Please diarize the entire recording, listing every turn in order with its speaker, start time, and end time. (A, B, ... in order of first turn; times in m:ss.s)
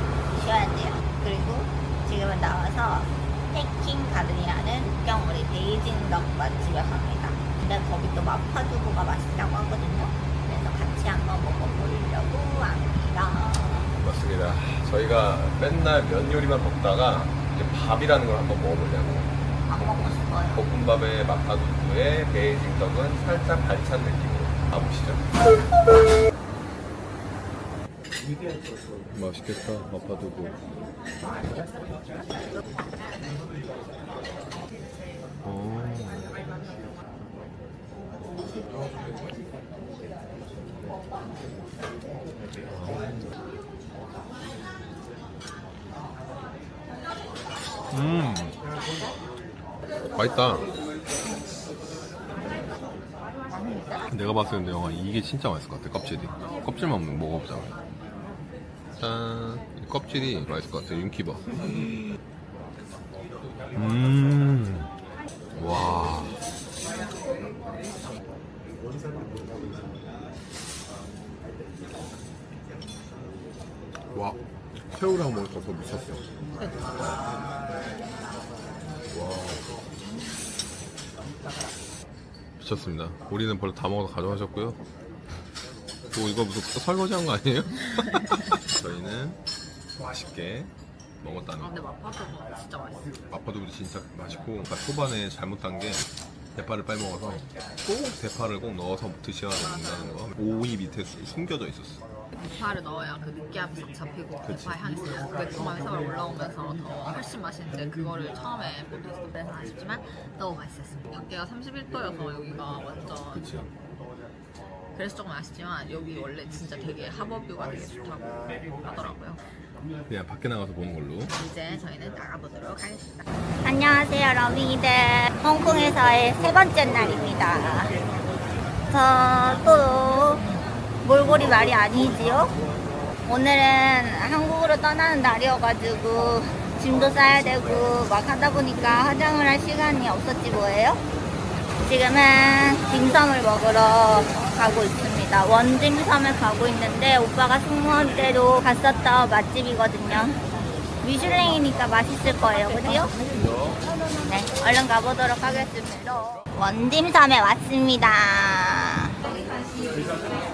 0:00.3-0:13.9 A
0:14.0-0:25.2 B
0:19.7-0:20.6 A
0:29.1-0:30.6 B
0:35.4-0:36.4 B
0:42.6-0:43.3 B
0:47.9-0:48.6 B
0:50.1-0:50.7 B
0:53.6-0:54.0 A
0:54.1-0:57.8 B
0:59.0-1:02.0 B
1:03.7-1:04.9 B
1:05.5-1:06.4 B
1:14.1-1:14.4 B
1:14.9-1:16.4 B
1:17.0-1:17.2 B
1:19.1-1:19.8 B
1:22.6-1:24.8 B
1:26.1-1:29.4 B
1:30.0-1:31.8 B
1:31.6-1:33.1 C
1:33.3-1:42.0 B
1:39.6-1:39.9 C
1:42.3-1:53.4 C
1:44.4-1:44.8 B
1:53.3-1:53.7 B
1:55.0-1:59.4 C
2:00.1-2:01.3 B
2:01.3-2:03.2 C
2:03.6-2:07.9 A
2:08.9-2:10.4 A
2:11.0-2:12.5 A
2:13.2-2:21.0 A
2:21.8-2:30.4 A
2:31.0-2:33.1 A
2:33.3-2:33.8 B
2:34.2-2:39.1 A